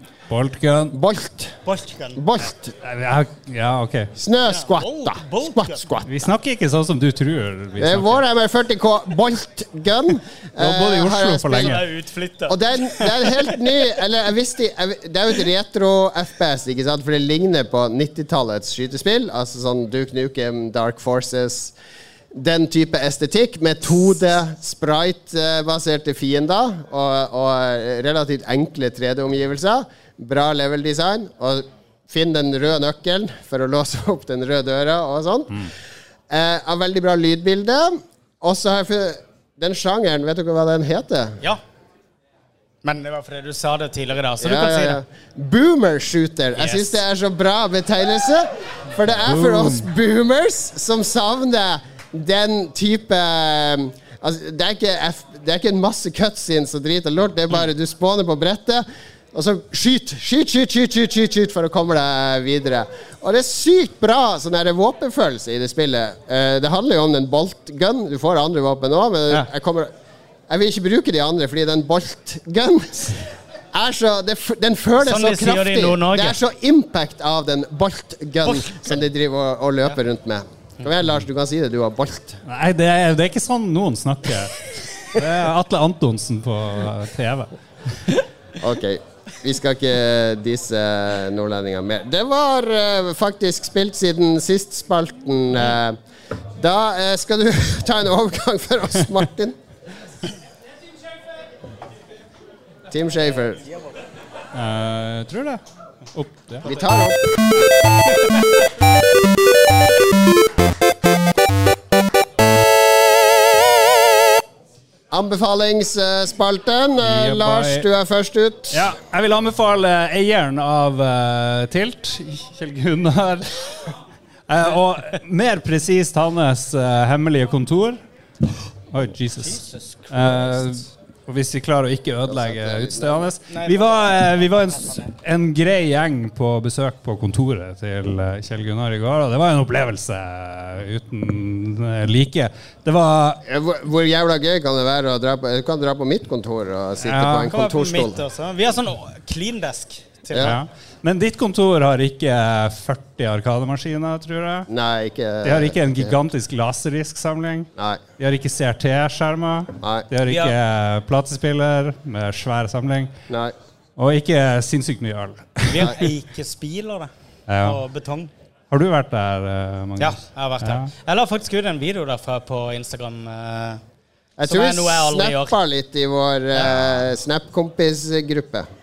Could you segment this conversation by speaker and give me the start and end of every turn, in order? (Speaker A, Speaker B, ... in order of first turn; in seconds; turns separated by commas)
Speaker A: 0.3-1.0, Speaker B: 0.9-1.5, Speaker C: 1.6-2.2, Speaker B: 2.1-2.7, Speaker A: 2.8-4.1, Speaker B: 4.2-6.1, Speaker C: 4.5-5.8, Speaker A: 6.0-8.2, Speaker B: 7.8-11.8, Speaker A: 10.6-11.8, Speaker C: 11.5-13.3, Speaker B: 12.5-21.7, Speaker B: 22.3-35.7, Speaker B: 36.3-41.4, Speaker C: 42.8-45.0, Speaker B: 44.4-69.9, Speaker C: 46.6-47.0, Speaker A: 49.2-49.9, Speaker B: 70.5-82.4, Speaker C: 75.0-76.4, Speaker A: 82.5-88.0, Speaker B: 88.6-96.0, Speaker B: 96.6-99.5, Speaker B: 102.9-103.6, Speaker A: 104.5-105.6, Speaker A: 106.1-106.7, Speaker B: 106.6-107.2, Speaker B: 115.1-118.9, Speaker A: 117.0-117.8, Speaker A: 118.7-123.6, Speaker A: 124.5-128.0, Speaker A: 128.9-143.4, Speaker C: 129.4-130.8, Speaker B: 132.2-133.3, Speaker C: 133.5-135.1, Speaker B: 143.5-148.2, Speaker A: 147.0-147.5, Speaker C: 147.4-150.5, Speaker B: 150.3-150.6, Speaker A: 150.4-154.7, Speaker B: 154.7-156.1, Speaker A: 155.4-163.1, Speaker B: 157.8-158.0, Speaker B: 159.8-160.1, Speaker C: 160.2-160.5, Speaker B: 163.3-163.5, Speaker A: 164.0-165.9, Speaker C: 165.7-168.3, Speaker A: 167.5-167.8, Speaker A: 168.7-170.9, Speaker C: 170.0-173.8, Speaker B: 174.4-178.7, Speaker C: 174.4-175.5